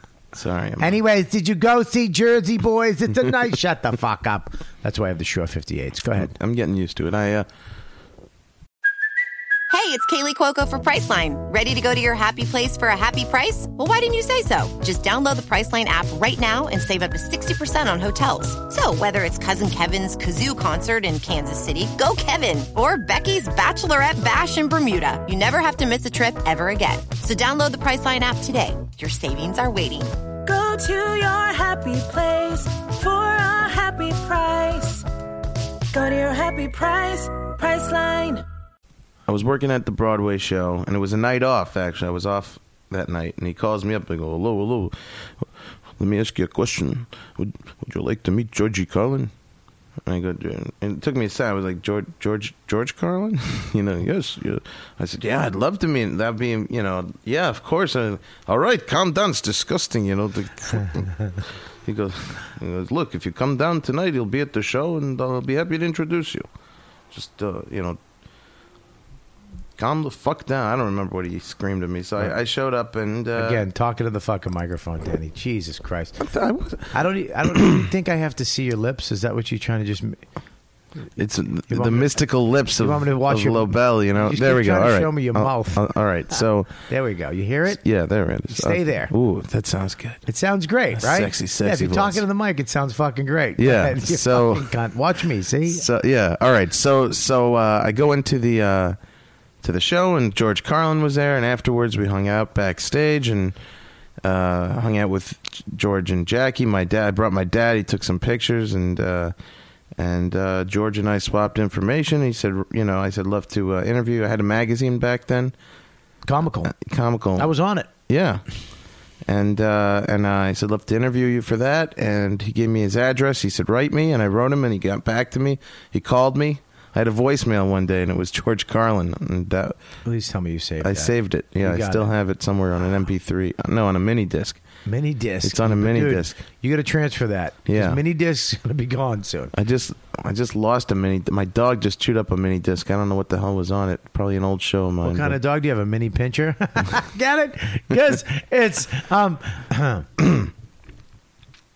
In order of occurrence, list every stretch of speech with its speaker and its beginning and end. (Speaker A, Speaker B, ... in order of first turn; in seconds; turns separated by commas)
Speaker A: 0.3-0.9, Speaker B: 0.8-6.3, Speaker A: 6.2-7.5, Speaker C: 9.7-30.1, Speaker D: 30.4-35.0, Speaker D: 35.9-38.4, Speaker A: 39.3-45.4, Speaker A: 46.0-49.3, Speaker A: 50.0-66.5, Speaker A: 67.1-68.0, Speaker A: 69.8-73.6, Speaker B: 73.3-76.2, Speaker A: 76.2-76.9, Speaker B: 76.9-80.2, Speaker A: 77.5-77.8, Speaker A: 81.2-86.8, Speaker B: 81.7-82.1, Speaker B: 82.8-85.8, Speaker B: 86.9-87.8, Speaker A: 87.7-90.2, Speaker B: 88.5-89.1, Speaker B: 90.2-95.8, Speaker A: 90.9-92.2, Speaker A: 93.6-94.7, Speaker A: 95.7-99.0, Speaker A: 99.6-103.6, Speaker A: 104.2-109.3, Speaker A: 110.0-115.5, Speaker B: 116.2-116.7, Speaker A: 116.7-117.5, Speaker B: 117.4-117.9, Speaker A: 118.1-118.4, Speaker A: 119.2-129.8, Speaker B: 130.0-132.1, Speaker A: 130.8-134.6, Speaker B: 134.8-139.5, Speaker A: 135.4-136.4, Speaker A: 137.7-138.0, Speaker A: 139.5-145.4, Speaker B: 145.0-150.3